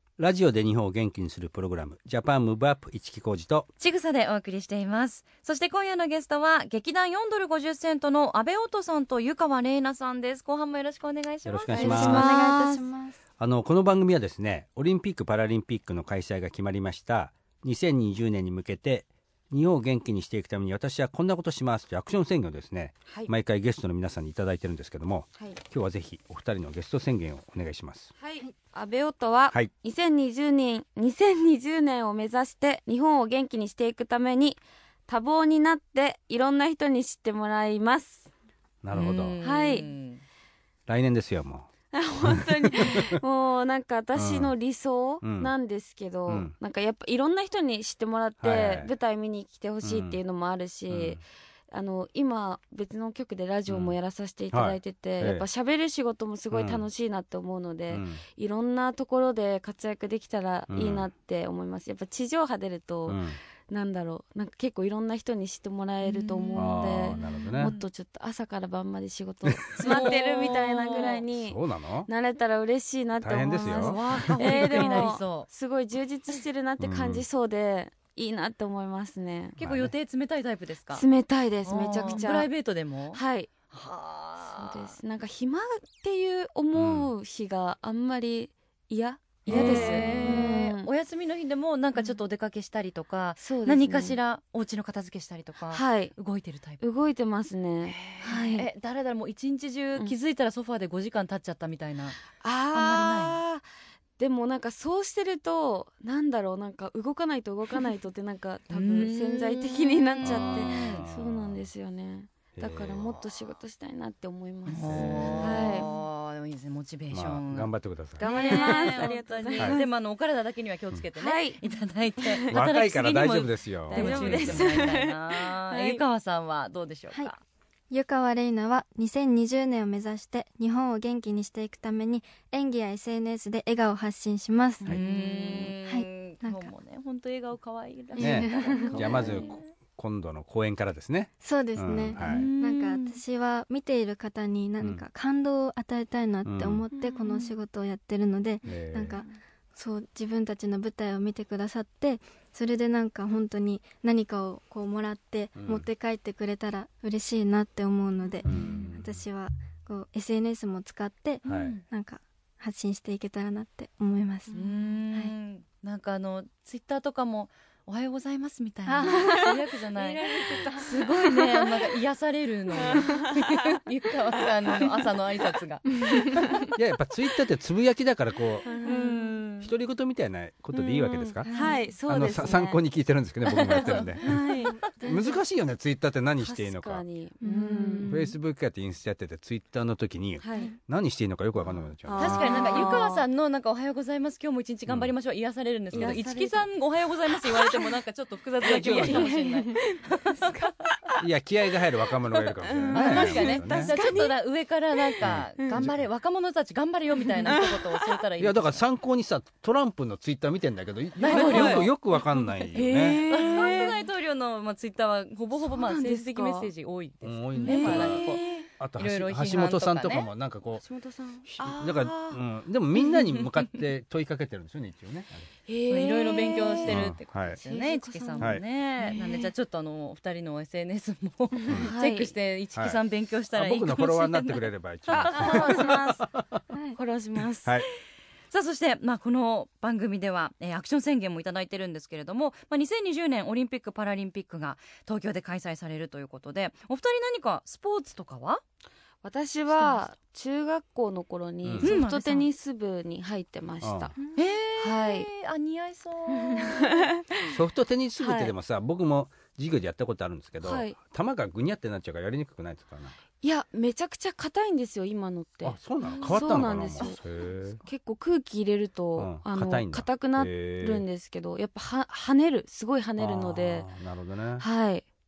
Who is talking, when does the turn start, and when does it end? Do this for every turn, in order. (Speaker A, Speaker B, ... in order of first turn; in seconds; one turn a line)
Speaker A: 0.2-3.7
Speaker B: 3.8-12.5
Speaker A: 11.4-12.3
Speaker C: 11.7-13.2
Speaker D: 11.8-12.8
Speaker A: 13.4-28.1
Speaker D: 28.2-38.3
Speaker A: 38.8-39.4
Speaker B: 38.9-40.2
Speaker D: 39.4-39.9
Speaker A: 40.9-41.7
Speaker D: 41.9-79.6
Speaker A: 42.2-43.1
Speaker A: 44.1-44.5
Speaker A: 45.2-45.5
Speaker A: 46.3-46.5
Speaker A: 48.4-48.9
Speaker A: 49.8-50.2
Speaker A: 50.9-51.2
Speaker A: 53.7-54.0
Speaker A: 54.5-55.5
Speaker A: 56.5-56.8
Speaker A: 57.9-58.2
Speaker A: 60.7-61.1
Speaker A: 63.1-63.4
Speaker B: 66.0-67.9
Speaker A: 66.6-67.7
Speaker B: 69.8-71.2
Speaker A: 71.3-72.1
Speaker A: 73.2-74.3
Speaker B: 73.6-75.5
Speaker A: 76.8-77.2
Speaker A: 79.6-79.9
Speaker B: 79.6-81.0
Speaker D: 80.9-82.5
Speaker B: 81.7-85.0
Speaker D: 83.1-83.5
Speaker D: 84.4-90.9
Speaker A: 86.7-87.1
Speaker A: 89.5-90.3
Speaker B: 89.5-96.8
Speaker D: 93.4-94.2
Speaker D: 95.7-96.2
Speaker D: 96.8-98.7
Speaker B: 97.8-103.4
Speaker D: 102.3-103.6
Speaker D: 104.2-115.9
Speaker B: 108.7-111.0
Speaker A: 110.2-111.7
Speaker A: 112.6-113.2
Speaker B: 114.7-127.4
Speaker A: 114.9-115.9
Speaker A: 117.1-118.8
Speaker D: 118.2-119.9
Speaker D: 121.2-121.6
Speaker D: 122.2-122.6
Speaker A: 122.5-124.9
Speaker D: 123.9-126.0
Speaker C: 127.9-135.0
Speaker D: 134.9-135.8
Speaker B: 134.9-139.6
Speaker C: 135.6-136.7
Speaker C: 138.2-139.3
Speaker A: 138.2-142.5
Speaker D: 138.8-139.6
Speaker C: 141.4-164.6
Speaker B: 142.2-143.2
Speaker A: 146.4-146.8
Speaker D: 146.9-147.4
Speaker A: 148.7-149.2
Speaker A: 155.6-155.9
Speaker A: 158.4-159.2
Speaker B: 161.4-161.8
Speaker A: 161.4-161.8
Speaker D: 164.5-164.8
Speaker B: 164.5-176.5
Speaker C: 168.9-171.7
Speaker D: 169.1-169.4
Speaker D: 170.3-171.1
Speaker D: 172.8-173.5
Speaker C: 173.0-173.3
Speaker D: 174.4-174.9
Speaker A: 176.8-178.7
Speaker D: 178.7-179.4
Speaker B: 178.8-179.7
Speaker C: 178.8-179.3
Speaker A: 179.6-181.5
Speaker D: 180.7-182.8
Speaker C: 181.4-181.8
Speaker A: 182.1-184.4
Speaker B: 183.6-184.1
Speaker D: 183.6-185.3
Speaker C: 184.7-185.4
Speaker A: 184.9-187.0
Speaker D: 186.4-188.3
Speaker C: 187.4-188.2
Speaker A: 188.1-192.7
Speaker D: 190.4-190.7
Speaker D: 192.0-193.3
Speaker B: 192.2-200.5
Speaker A: 194.9-195.1
Speaker D: 195.9-196.7
Speaker D: 197.5-197.8
Speaker A: 198.7-199.3
Speaker D: 198.7-201.2
Speaker A: 201.2-204.0
Speaker D: 202.6-204.4
Speaker B: 202.9-208.9
Speaker D: 205.0-205.9
Speaker A: 205.2-206.0
Speaker D: 207.4-208.1
Speaker A: 208.4-213.2
Speaker B: 211.2-211.9
Speaker D: 211.2-211.9
Speaker B: 212.7-218.4
Speaker D: 212.7-214.0
Speaker D: 215.6-216.7
Speaker A: 217.2-220.8
Speaker D: 217.6-218.7
Speaker B: 219.0-220.3
Speaker D: 220.8-222.4
Speaker A: 221.4-225.5
Speaker D: 225.7-229.5
Speaker B: 225.9-235.7
Speaker A: 226.9-227.6
Speaker D: 231.6-232.3
Speaker A: 233.5-236.6
Speaker D: 235.1-236.2
Speaker C: 236.7-237.0
Speaker D: 236.9-237.8
Speaker B: 238.5-248.6
Speaker D: 249.2-254.2
Speaker B: 249.7-250.0
Speaker A: 251.6-252.0
Speaker B: 251.8-252.5
Speaker A: 253.8-254.1
Speaker B: 254.3-257.1
Speaker D: 254.8-255.3
Speaker D: 256.3-257.5
Speaker A: 257.5-263.2
Speaker D: 258.2-258.5
Speaker D: 260.6-261.0
Speaker D: 263.4-267.2
Speaker A: 265.6-267.8
Speaker B: 266.1-266.4
Speaker D: 267.8-273.9
Speaker A: 269.2-271.1
Speaker A: 273.2-274.6
Speaker D: 274.6-275.1